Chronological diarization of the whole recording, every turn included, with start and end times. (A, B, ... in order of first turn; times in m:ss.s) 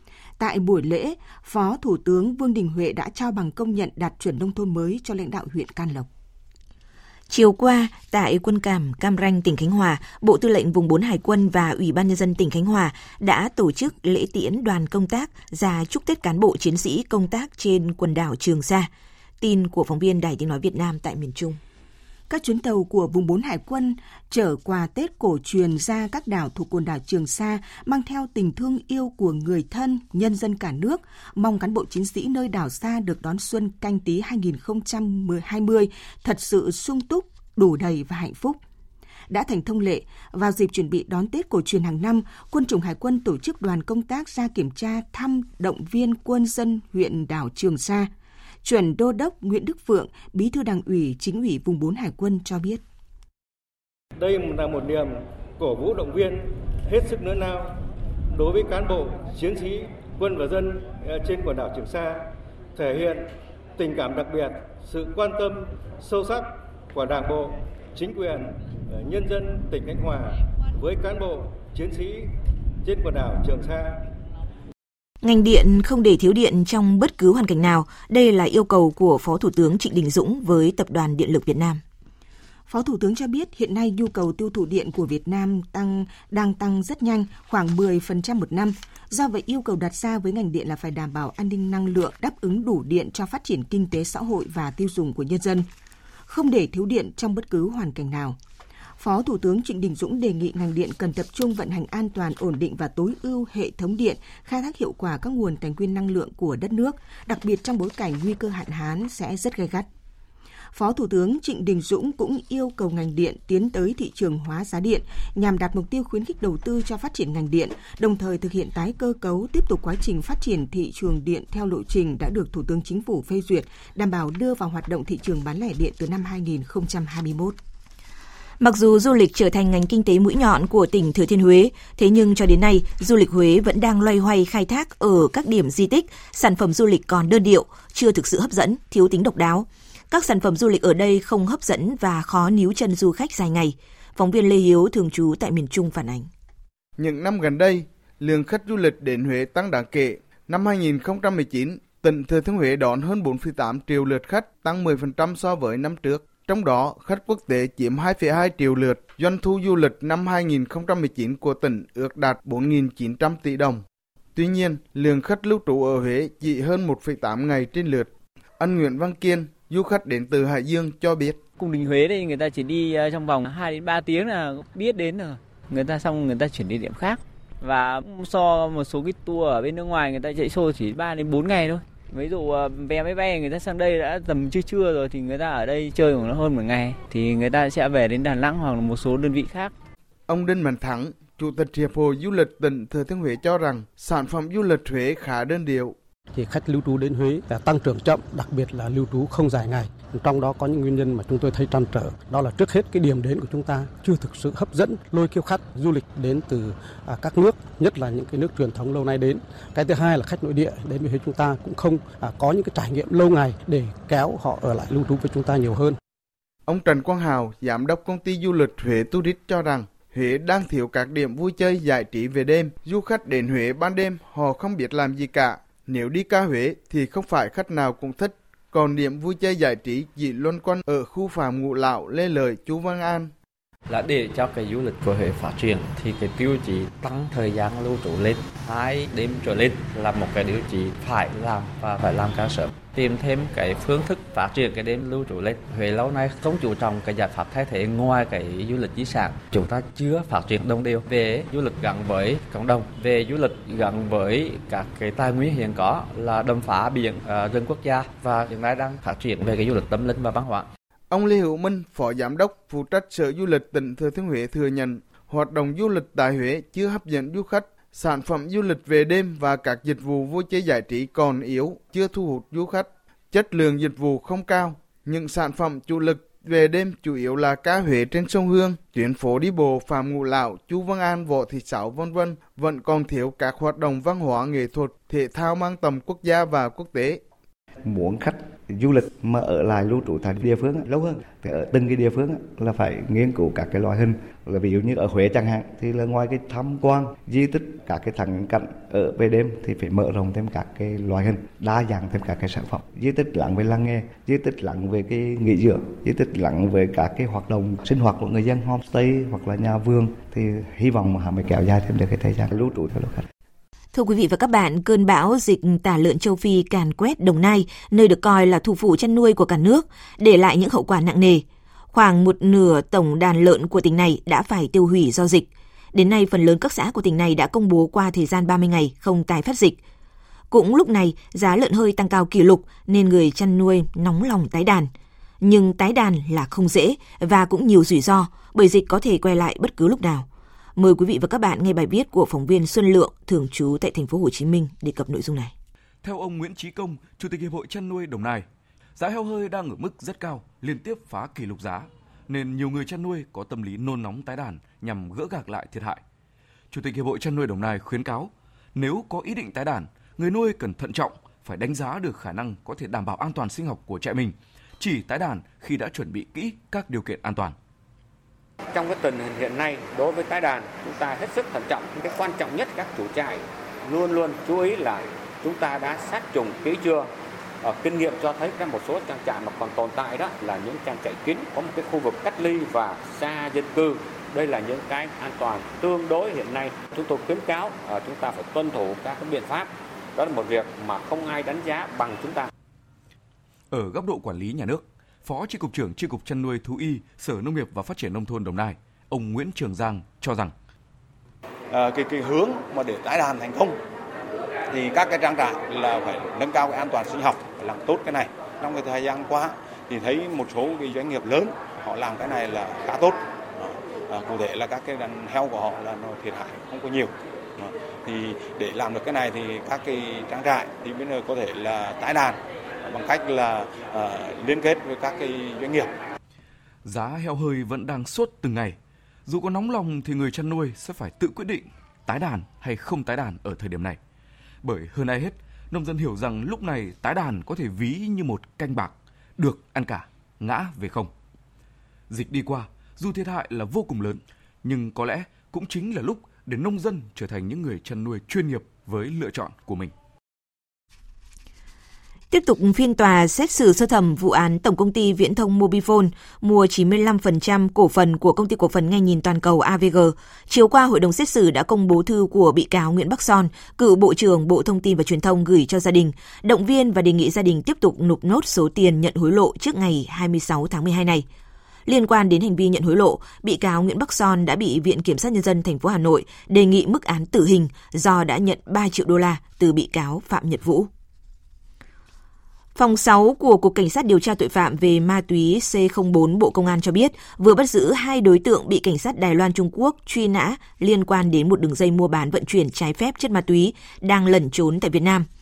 0:00.4-0:06.1 A
0:07.3-0:21.6 B
0:22.3-0:38.6 A
0:39.3-0:48.1 A
0:48.6-0:52.8 A
0:54.2-0:57.8 C
0:58.3-1:02.2 C
1:02.8-1:12.3 C
1:12.8-1:14.0 C
1:15.2-1:21.8 B
1:22.7-1:35.7 A
1:36.3-1:38.4 A
1:39.0-1:49.9 A
1:50.7-2:07.6 A
2:08.6-2:26.3 B
2:27.0-2:43.8 D
2:44.4-2:51.4 D
2:51.6-3:09.7 E
3:10.3-3:16.0 D
3:16.3-3:36.0 F
3:36.7-3:53.3 D
3:53.9-4:20.7 G
4:21.1-4:47.2 D
4:47.8-5:13.2 H
5:13.9-5:29.8 B
5:30.5-5:45.5 B
5:46.0-5:48.5 I
5:49.0-5:56.0 I
5:56.7-6:07.6 I
6:08.7-6:17.1 J
6:17.6-6:32.5 J
6:33.7-6:40.5 I
6:41.7-6:43.8 K
6:44.7-7:05.9 K
7:06.8-7:14.0 I
7:14.6-7:21.1 I
7:22.1-7:29.9 I
7:32.3-7:51.3 B
7:51.9-8:00.9 B
8:02.8-8:15.3 B